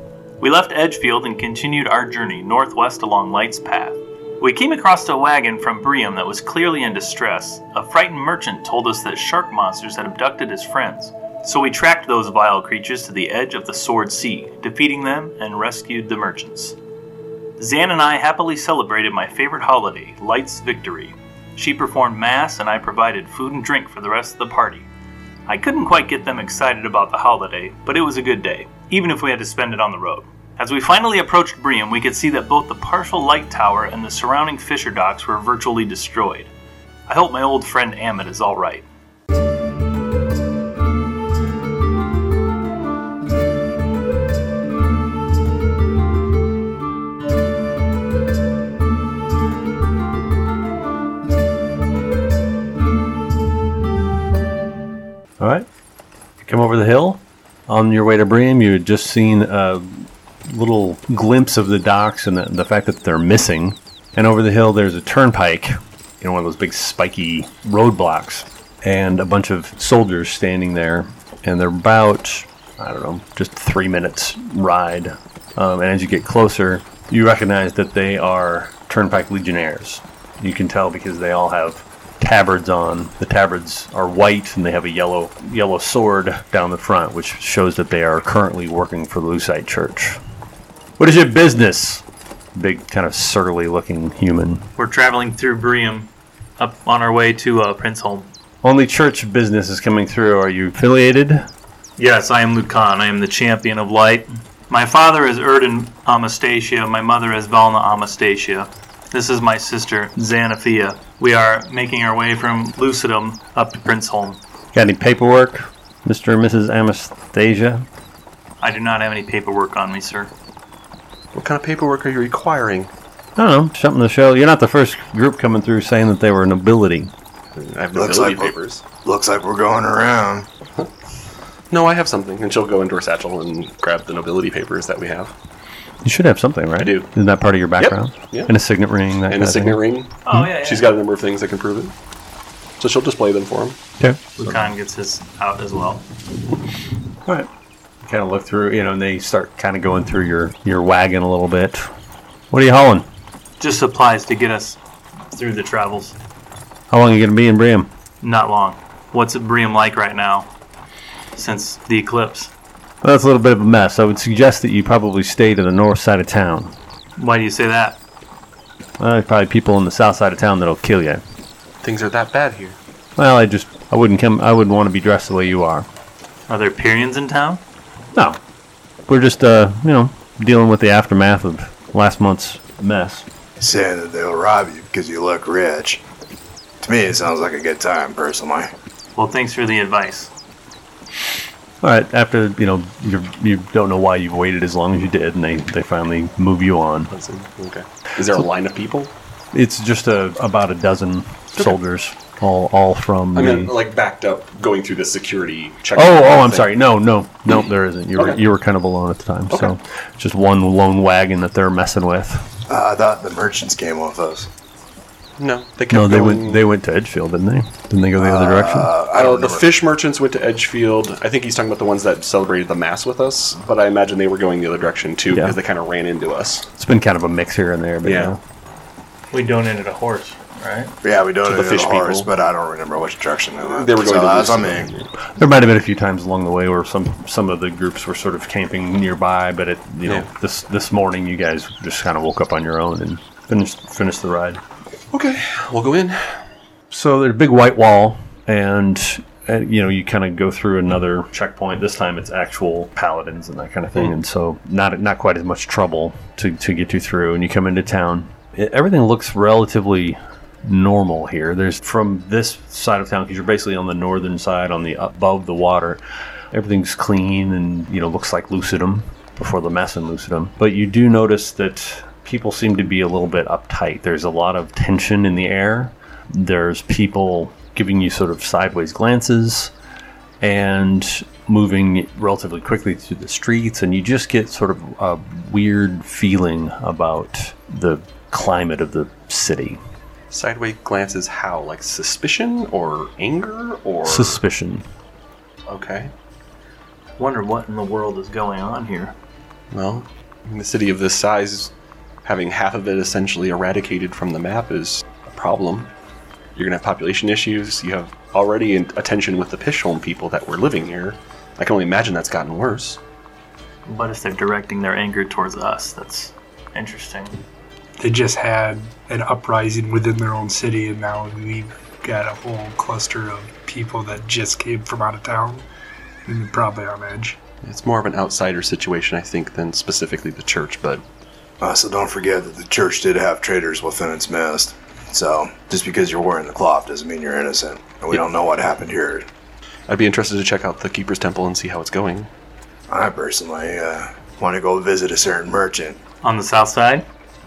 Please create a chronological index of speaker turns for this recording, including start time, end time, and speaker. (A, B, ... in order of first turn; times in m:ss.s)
0:00.4-0:16.8 A
0:17.6-0:24.9 A
0:25.5-0:36.5 A
0:37.1-0:38.8 A
0:55.4-0:55.6 B
0:56.4-1:30.2 B
1:31.0-1:32.0 B
1:32.5-1:34.7 B
1:34.8-1:38.3 A
1:38.6-1:41.5 B
1:42.0-1:54.4 A
1:54.7-1:57.8 B
1:58.6-2:00.3 A
2:01.3-2:02.9 C
2:03.4-2:07.1 B
2:07.5-2:08.8 C
2:07.9-2:10.5 D
2:11.7-2:15.3 C
2:16.0-2:20.5 B
2:16.8-2:17.1 C
2:17.8-2:18.5 C
2:19.3-2:21.9 C
2:20.2-2:20.9 A
2:22.8-2:23.8 C
2:24.0-2:24.7 B
2:24.4-2:26.0 A
2:28.0-2:31.9 B
2:32.5-2:33.0 B
2:33.6-2:34.8 A
2:35.3-2:36.2 A
2:36.9-2:37.9 B
2:38.2-2:40.5 A
2:41.3-2:42.5 A
2:43.0-2:46.7 B
2:47.2-2:48.0 A
2:49.0-2:51.2 B
2:51.8-2:52.8 C
2:53.2-2:55.9 B
2:56.5-2:57.6 A
2:58.1-2:58.4 B
2:59.1-3:03.2 B
3:03.6-3:06.0 D
3:06.8-3:08.7 D
3:09.2-3:10.3 A
3:11.8-3:17.1 B
3:17.1-3:19.1 C
3:19.5-3:23.7 B
3:23.3-3:26.7 C
3:25.9-3:32.5 B
3:32.7-3:34.5 D
3:35.4-3:36.7 C
3:35.9-3:38.9 B
3:38.2-3:39.8 D
3:39.1-3:46.7 C
3:45.3-3:45.6 B
3:46.8-3:48.4 B
3:48.0-3:48.4 C
3:49.3-3:50.9 A
3:51.0-3:54.9 D
3:51.4-3:52.3 C
3:53.7-3:55.1 C
3:55.3-4:04.6 B
4:05.1-4:06.4 C
4:06.9-4:26.0 B
4:26.5-4:39.7 B
4:40.4-4:49.8 B
4:50.3-4:54.4 C
4:54.0-4:54.8 B
4:55.7-4:56.1 C
4:57.2-4:59.1 A
4:59.7-5:01.7 C
5:02.2-5:05.9 C
5:06.6-5:13.0 C
5:13.8-5:17.4 A
5:18.0-5:25.6 E
5:26.2-5:27.4 E
5:27.6-5:31.0 C
5:31.6-5:39.3 D
5:39.9-5:42.3 C
5:42.9-5:46.0 D
5:46.2-5:47.0 A